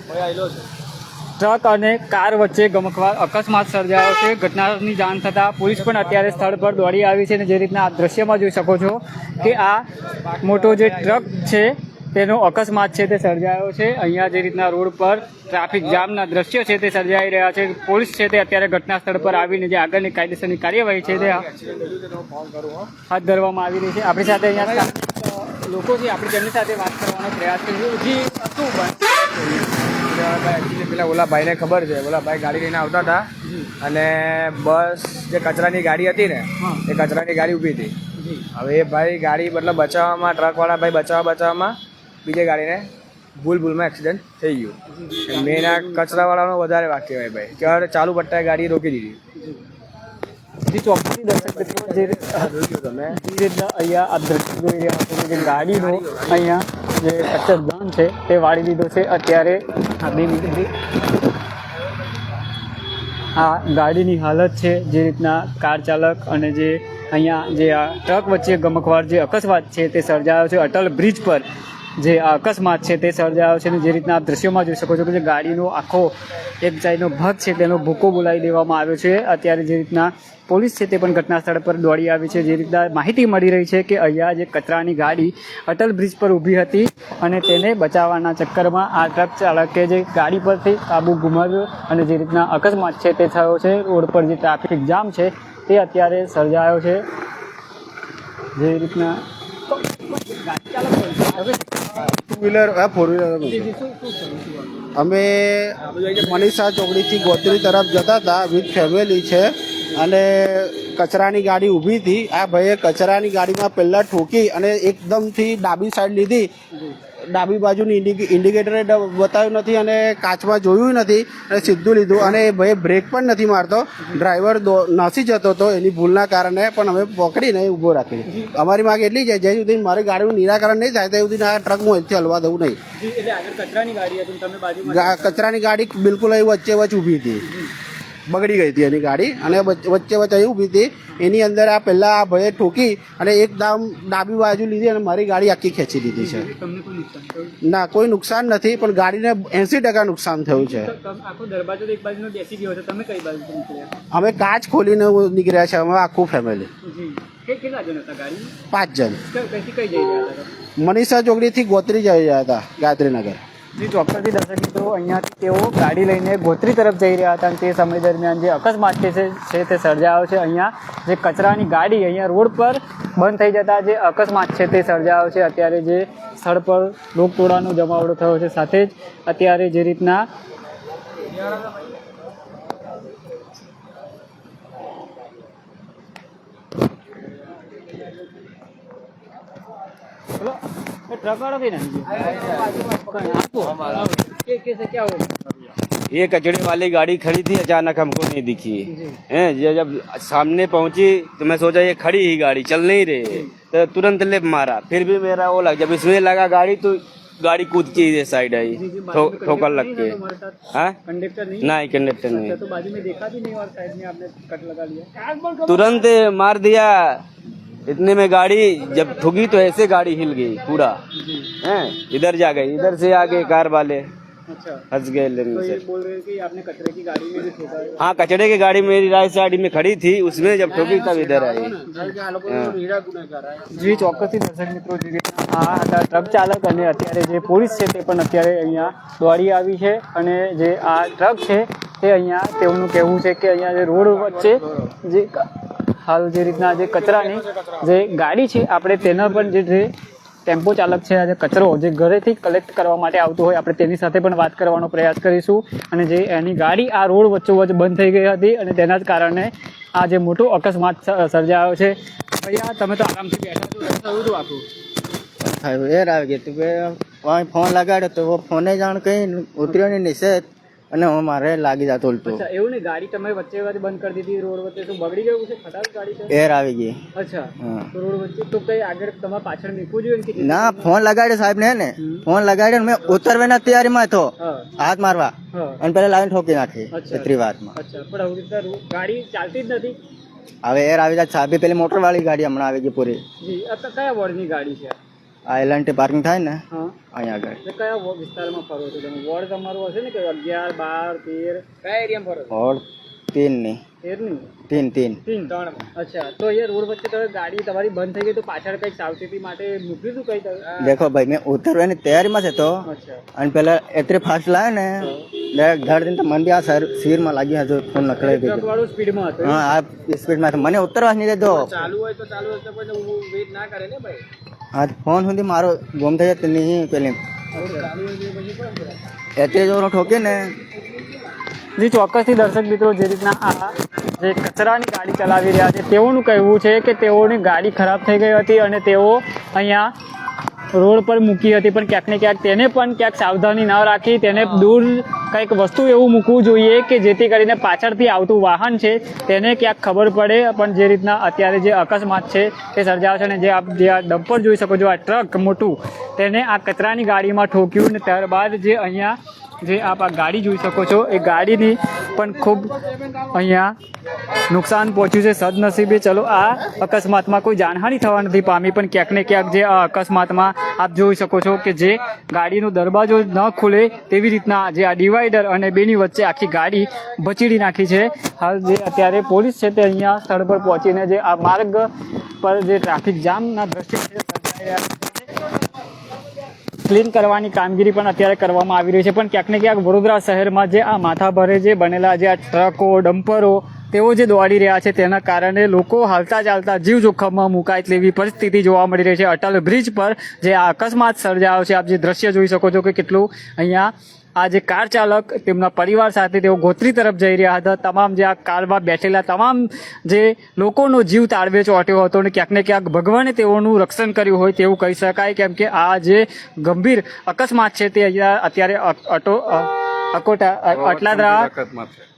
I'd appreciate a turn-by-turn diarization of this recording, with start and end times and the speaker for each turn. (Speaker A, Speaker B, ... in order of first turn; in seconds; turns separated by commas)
Speaker A: 0.1-0.6, Speaker B: 1.4-9.9, Speaker B: 10.4-21.5, Speaker A: 21.1-22.9, Speaker B: 23.1-29.6, Speaker A: 30.0-33.3, Speaker B: 33.4-33.7, Speaker A: 33.8-37.9, Speaker B: 36.6-36.8, Speaker B: 38.2-38.5, Speaker A: 38.5-44.7, Speaker B: 45.0-46.2, Speaker A: 45.3-49.2, Speaker B: 50.6-52.5, Speaker A: 51.5-53.1, Speaker B: 53.1-60.8, Speaker A: 55.6-56.4, Speaker B: 63.4-71.4, Speaker B: 72.0-97.0, Speaker B: 98.5-102.0, Speaker C: 102.1-103.7, Speaker B: 103.4-104.7, Speaker C: 104.9-116.5, Speaker A: 105.8-106.5, Speaker B: 116.7-117.0, Speaker C: 117.3-132.8, Speaker B: 128.2-128.6, Speaker B: 132.9-135.4, Speaker C: 134.9-137.4, Speaker B: 137.4-137.7, Speaker C: 138.3-146.5, Speaker B: 146.2-147.6, Speaker C: 147.6-150.9, Speaker B: 150.5-153.9, Speaker C: 154.1-156.7, Speaker B: 156.8-158.6, Speaker C: 158.7-159.2, Speaker B: 159.3-160.5, Speaker C: 160.8-163.4, Speaker B: 163.8-180.3, Speaker B: 190.4-195.7, Speaker D: 196.1-210.2, Speaker B: 198.9-199.2, Speaker B: 208.7-211.8, Speaker D: 211.6-212.6, Speaker B: 212.3-215.5, Speaker D: 215.4-217.2, Speaker D: 217.9-221.0, Speaker B: 221.2-221.6, Speaker D: 221.6-224.1, Speaker B: 224.5-224.9, Speaker D: 224.9-225.8, Speaker B: 225.5-228.0, Speaker D: 228.0-231.8, Speaker C: 230.7-233.6, Speaker B: 231.9-232.2, Speaker D: 232.4-232.8, Speaker B: 233.7-249.9, Speaker B: 250.5-264.6, Speaker E: 265.4-272.4, Speaker B: 272.2-276.3, Speaker E: 276.3-277.0, Speaker B: 277.1-280.9, Speaker E: 277.6-277.9, Speaker E: 280.4-287.8, Speaker B: 282.0-282.2, Speaker B: 284.4-284.7, Speaker B: 285.5-285.8, Speaker B: 286.9-290.0, Speaker E: 290.6-293.2, Speaker B: 293.4-295.0, Speaker E: 295.4-297.6, Speaker B: 296.7-296.9, Speaker B: 297.6-301.6, Speaker A: 301.8-302.5, Speaker E: 302.5-303.8, Speaker B: 304.0-304.5, Speaker E: 304.7-305.2, Speaker B: 305.2-310.8, Speaker A: 305.5-305.9, Speaker E: 310.8-318.7, Speaker B: 312.9-313.2, Speaker B: 315.0-315.2, Speaker B: 317.9-319.6, Speaker E: 319.4-321.9, Speaker A: 321.4-324.2, Speaker E: 324.7-327.2, Speaker B: 327.5-327.9, Speaker A: 327.6-328.9, Speaker E: 329.4-330.5, Speaker B: 331.8-339.9, Speaker B: 340.7-363.7, Speaker B: 364.5-381.9, Speaker B: 382.4-385.3, Speaker B: 386.8-421.5, Speaker D: 420.9-421.9